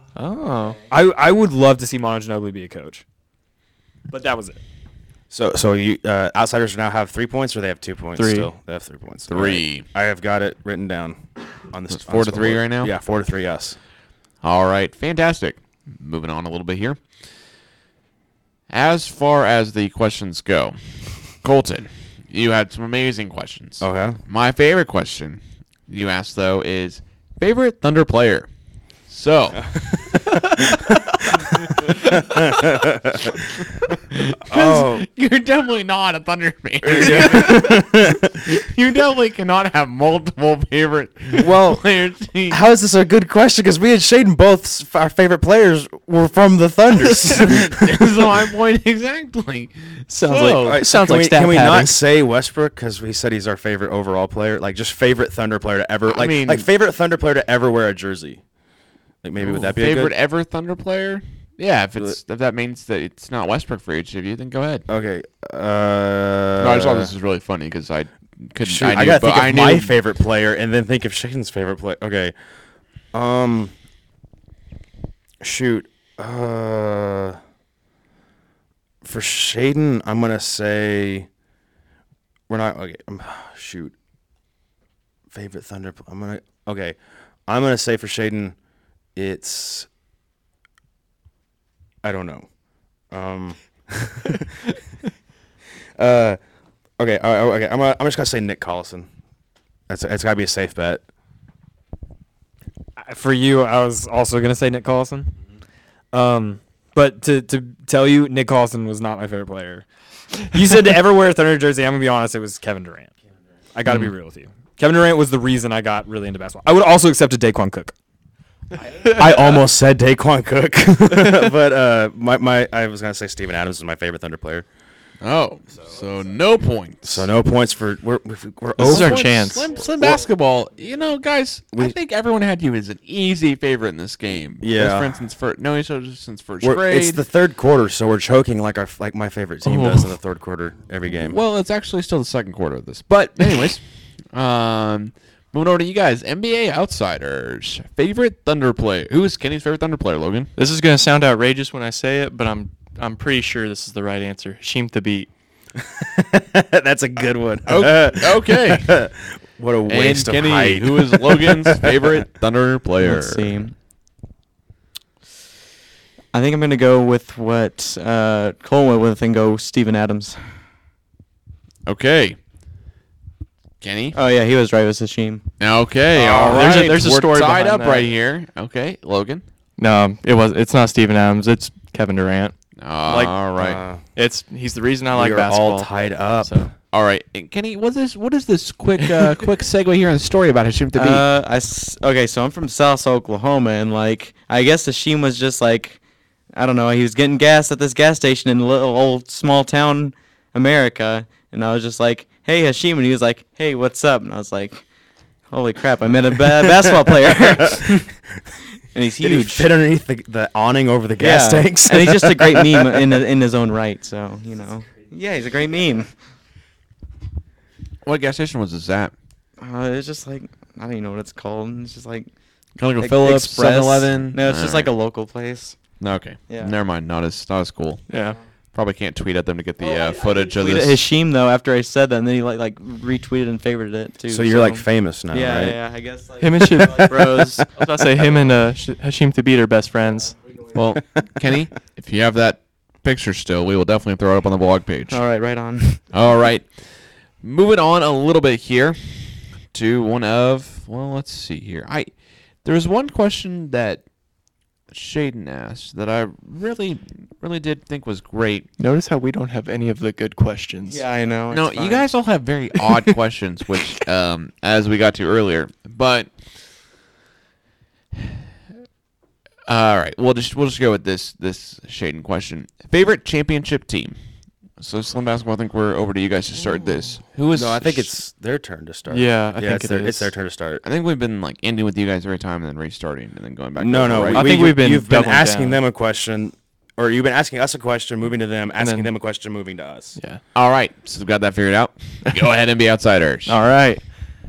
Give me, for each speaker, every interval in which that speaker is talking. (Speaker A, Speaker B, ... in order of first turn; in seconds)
Speaker A: 0.1-0.8, 8.2-8.5, 50.1-52.0, 113.8-114.1, 118.9-119.5, 128.8-129.7, 139.7-140.1, 150.6-155.3, 176.3-178.1, 179.8-182.5, 183.0-183.5, 184.1-186.7, 228.1-228.4, 236.4-240.4, 258.8-261.0, 279.1-280.3, 284.3-285.8, 288.8-289.1, 293.4-294.0
Speaker B: 0.9-3.0, 4.1-4.6, 103.0-105.3, 106.1-109.9, 110.4-113.1, 113.7-117.9
Speaker C: 5.3-13.8, 23.8-24.2, 30.7-33.3, 34.5-35.0, 36.8-38.3, 41.4-41.8, 42.5-48.3, 50.6-58.4, 59.2-60.1, 64.9-67.1, 68.6-72.3, 73.1-73.7, 75.4-77.4, 79.0-81.3, 82.5-83.9, 85.3-88.5, 89.2-89.9, 92.0-92.5, 93.1-94.5, 96.0-96.4, 97.0-99.1, 99.9-101.0, 119.1-124.7, 127.0-129.3, 130.0-130.2, 134.6-135.2, 136.6-141.4, 155.9-162.2, 176.1-176.8, 183.6-184.0, 185.1-186.7, 206.6-207.8, 209.2-213.0, 234.3-235.8, 277.5-280.8, 283.8-290.2
Speaker D: 9.3-9.9, 11.9-12.9, 14.4-17.0, 18.7-20.8, 21.4-28.5, 29.1-32.7, 33.5-42.6, 47.0-50.8, 56.1-56.6, 59.4-64.8, 66.6-69.9, 125.2-127.3, 128.8-137.2, 141.1-150.5, 157.7-158.9, 159.9-163.5, 171.8-172.4, 173.8-174.2, 175.6-179.4, 182.8-183.8, 186.9-191.2, 218.0-219.1, 222.8-224.9, 226.0-228.1, 228.7-231.0, 240.7-245.2, 246.1-252.1, 252.6-254.1, 254.9-258.7, 261.5-266.3, 269.7-274.2, 274.8-278.1, 280.8-284.6, 290.5-293.6
Speaker E: 163.0-163.7, 166.3-170.4, 174.1-175.4, 190.9-196.0, 196.5-204.8, 205.5-208.1, 208.9-209.7, 211.2-216.1, 219.6-222.3, 223.0-225.8, 226.5-226.7, 229.8-237.6, 245.1-246.0, 260.9-262.1